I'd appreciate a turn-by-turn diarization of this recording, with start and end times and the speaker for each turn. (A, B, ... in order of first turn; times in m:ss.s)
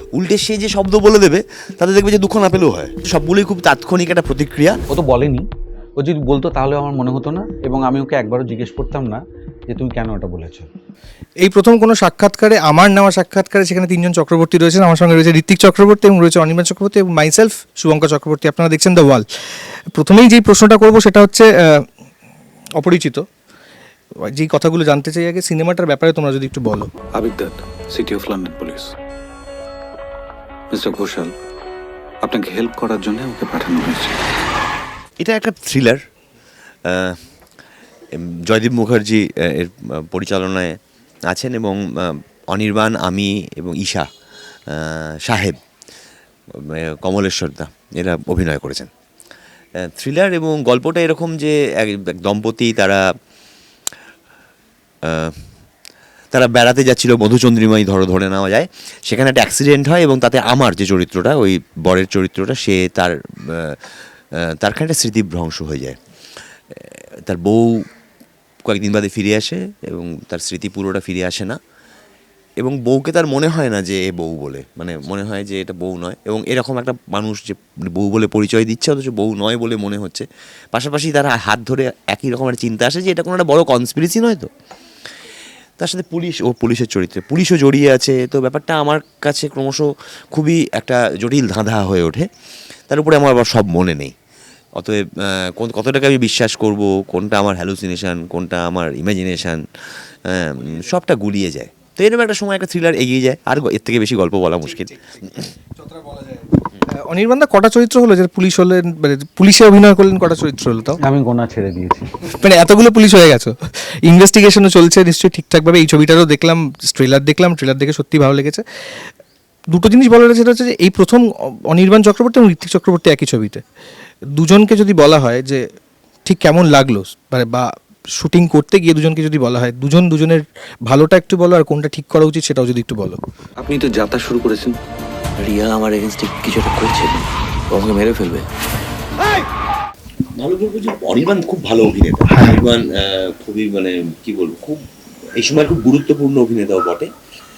0:00.1-0:04.8 A
0:04.9-0:05.4 B
0:06.0-0:10.7 B
0:11.4-0:19.2 C
0:19.9-0:21.8 C
0:22.8-0:23.2 C
0:24.3-0:26.9 C
0:27.1-0:28.9 D
0:30.7-0:31.3 D
0:32.2-0:34.2 D
0:35.2-0:36.0 A
0:36.9-0:37.2 A
0:38.1-0:40.7 A
0:41.3-0:44.1 A
0:44.7-0:45.6 A
0:46.5-0:48.9 A
0:49.8-0:53.0 A
0:55.0-0:55.3 A
0:56.3-1:03.8 A
1:04.4-1:06.0 A
1:06.8-1:07.7 A
1:08.6-1:11.6 A
1:12.6-1:24.5 A
1:25.8-1:32.3 A
1:32.9-1:34.1 A
1:34.8-1:39.6 A
1:40.3-1:45.4 A
1:45.8-1:51.0 C
1:51.0-1:52.1 B
1:52.3-1:58.6 C
1:59.7-2:03.6 C
2:04.4-2:05.6 C
2:06.2-2:13.2 C
2:13.6-2:14.8 D
2:15.4-2:18.4 E
2:20.4-2:24.8 A
2:25.4-2:27.1 A